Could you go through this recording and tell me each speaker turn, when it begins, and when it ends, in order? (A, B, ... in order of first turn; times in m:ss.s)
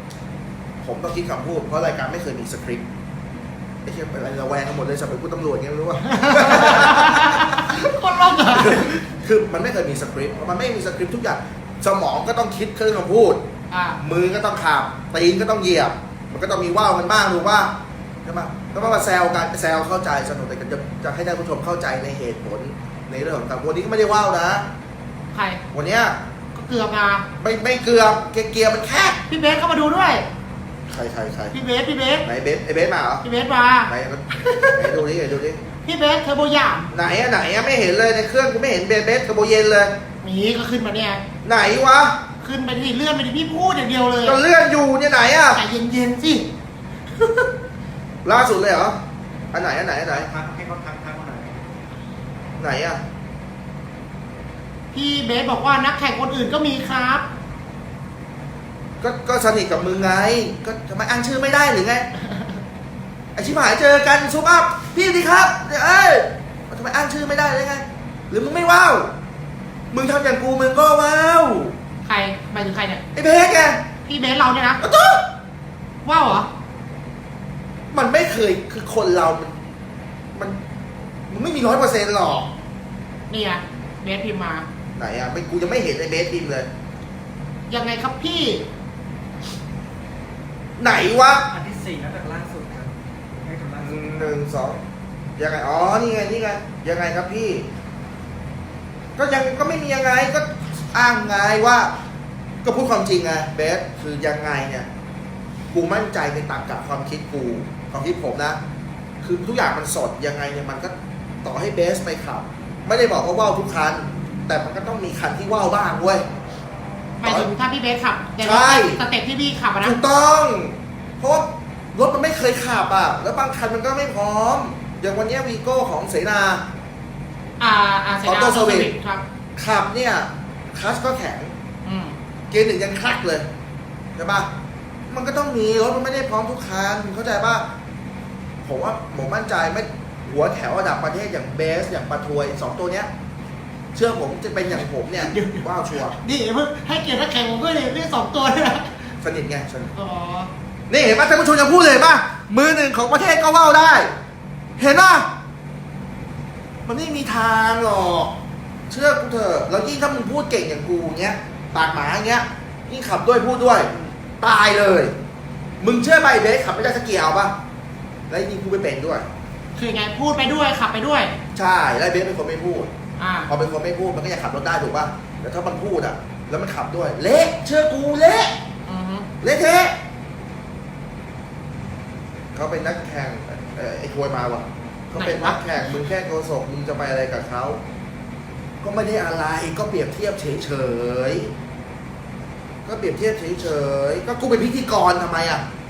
0:00.8-0:02.9 A
0:03.8-0:13.4 A
0:06.0-0:08.9 B
0:13.7-0:14.0 B
0:14.0-0:24.7 A
0:25.3-0:25.6 B
0:25.7-0:26.2 A
0:26.5-0:27.3 B
0:27.4-0:29.2 A
0:29.3-0:30.3 B
0:30.9-0:31.5 A
0:31.5-0:32.3 B
0:32.2-0:33.2 A
0:33.2-0:34.9 B
0:33.9-0:35.6 A
0:35.8-0:36.9 B
0:36.9-0:40.0 A
0:40.2-0:41.2 B
0:41.4-0:42.2 A
0:42.4-0:44.4 B
0:44.2-0:45.6 A
0:45.5-0:46.5 B
0:48.2-0:49.0 A
0:49.5-0:50.3 A
0:50.1-0:51.6 C
0:52.6-0:53.0 A
0:54.9-0:57.2 B
0:59.0-1:02.1 A
1:03.3-1:09.1 A
1:09.9-1:11.8 A
1:12.0-1:13.0 B
1:13.1-1:13.8 A
1:14.0-1:14.8 B
1:14.8-1:15.2 A
1:16.0-1:16.5 B
1:17.9-1:19.5 A
1:20.3-1:20.6 A
1:21.3-1:22.5 A
1:23.3-1:24.6 B
1:25.0-1:26.7 A
1:27.7-1:28.6 B
1:30.8-1:31.5 A
1:31.5-1:32.9 C
1:33.4-1:34.4 C
1:33.8-1:34.8 A
1:35.4-1:37.7 A
1:39.2-1:41.9 A
1:42.6-1:44.9 A
1:45.7-1:48.6 A
1:49.2-1:50.9 A
1:51.4-1:56.2 A
1:57.2-2:00.0 B
1:57.2-1:57.5 A
1:58.4-1:59.0 A
1:59.8-2:06.6 A
2:07.6-2:09.2 B
2:08.2-2:08.9 A
2:09.6-2:11.5 A
2:11.8-2:12.2 B
2:12.5-2:13.5 A
2:14.2-2:14.5 A
2:15.1-2:17.7 A
2:18.6-2:23.1 A
2:23.9-2:26.2 A
2:26.2-2:28.9 B
2:29.2-2:29.9 A
2:29.9-2:30.5 B
2:30.9-2:34.1 A
2:34.8-2:35.3 A
2:36.8-2:38.4 A
2:38.9-2:45.2 A
2:45.8-2:47.6 A
2:48.3-2:49.3 A
2:49.8-2:51.4 B
2:51.5-2:52.9 A
2:53.2-2:53.5 B
2:53.5-2:58.6 A
2:58.8-2:59.3 B
2:59.4-3:00.0 A
3:02.5-3:07.8 A
3:05.2-3:05.9 B
3:08.8-3:11.5 A
3:12.8-3:15.6 A